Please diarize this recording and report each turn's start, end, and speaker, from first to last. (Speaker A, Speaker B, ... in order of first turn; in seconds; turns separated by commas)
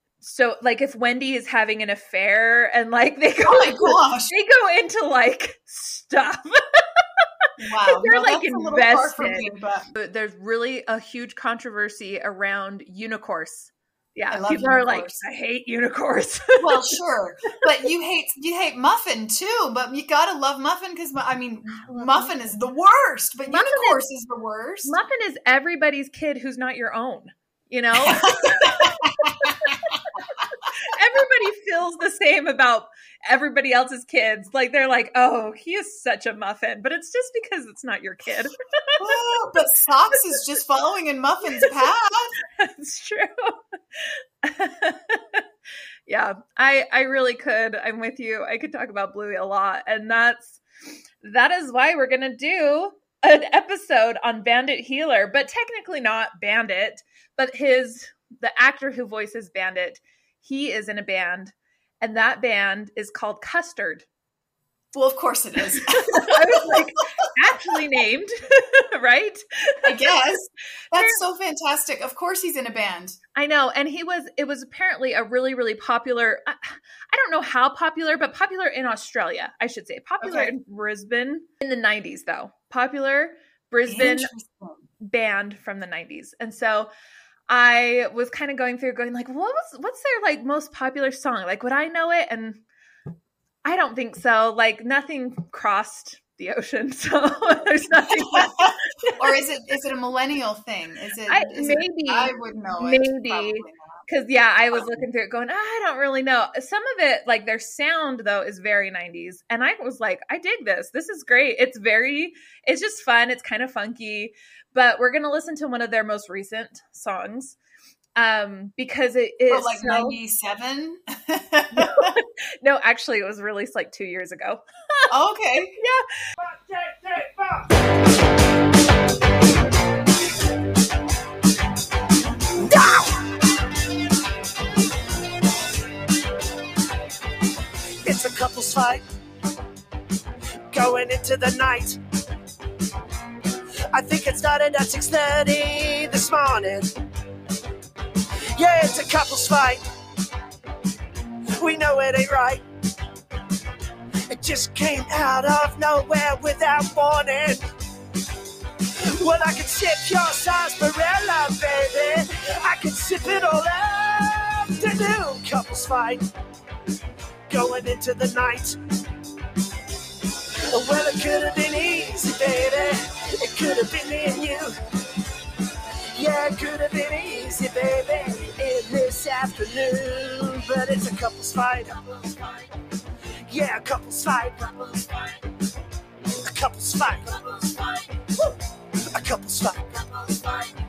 Speaker A: 0.2-6.8, Speaker B: 3.4-4.3, Speaker B: 7.6-9.9, Speaker A: 7.9-16.9, Speaker B: 14.3-15.2, Speaker B: 16.6-24.9, Speaker A: 21.9-22.4, Speaker A: 23.5-24.0, Speaker A: 24.9-39.2, Speaker B: 28.1-30.0, Speaker B: 39.0-42.3, Speaker A: 42.6-45.4, Speaker A: 46.1-50.6, Speaker A: 51.2-64.1, Speaker B: 64.9-66.8, Speaker A: 65.9-69.9, Speaker B: 69.8-73.2, Speaker A: 73.3-84.3, Speaker B: 80.2-80.5, Speaker B: 83.9-84.9, Speaker A: 85.0-86.9, Speaker A: 87.5-92.6, Speaker A: 93.7-99.2, Speaker B: 98.3-104.0, Speaker A: 101.3-117.6, Speaker A: 118.2-120.2, Speaker B: 119.5-122.2, Speaker A: 121.8-125.1, Speaker B: 125.1-125.8, Speaker A: 125.8-126.0, Speaker C: 126.5-127.7, Speaker C: 132.6-133.3, Speaker C: 138.0-139.1, Speaker C: 140.7-142.0, Speaker C: 143.9-146.9, Speaker C: 148.6-149.8, Speaker C: 151.6-152.6, Speaker C: 154.3-157.6, Speaker C: 159.2-166.3, Speaker C: 167.5-168.8, Speaker C: 170.7-174.7, Speaker C: 176.1-182.4, Speaker C: 183.5-185.3, Speaker C: 186.4-188.0, Speaker C: 189.1-190.7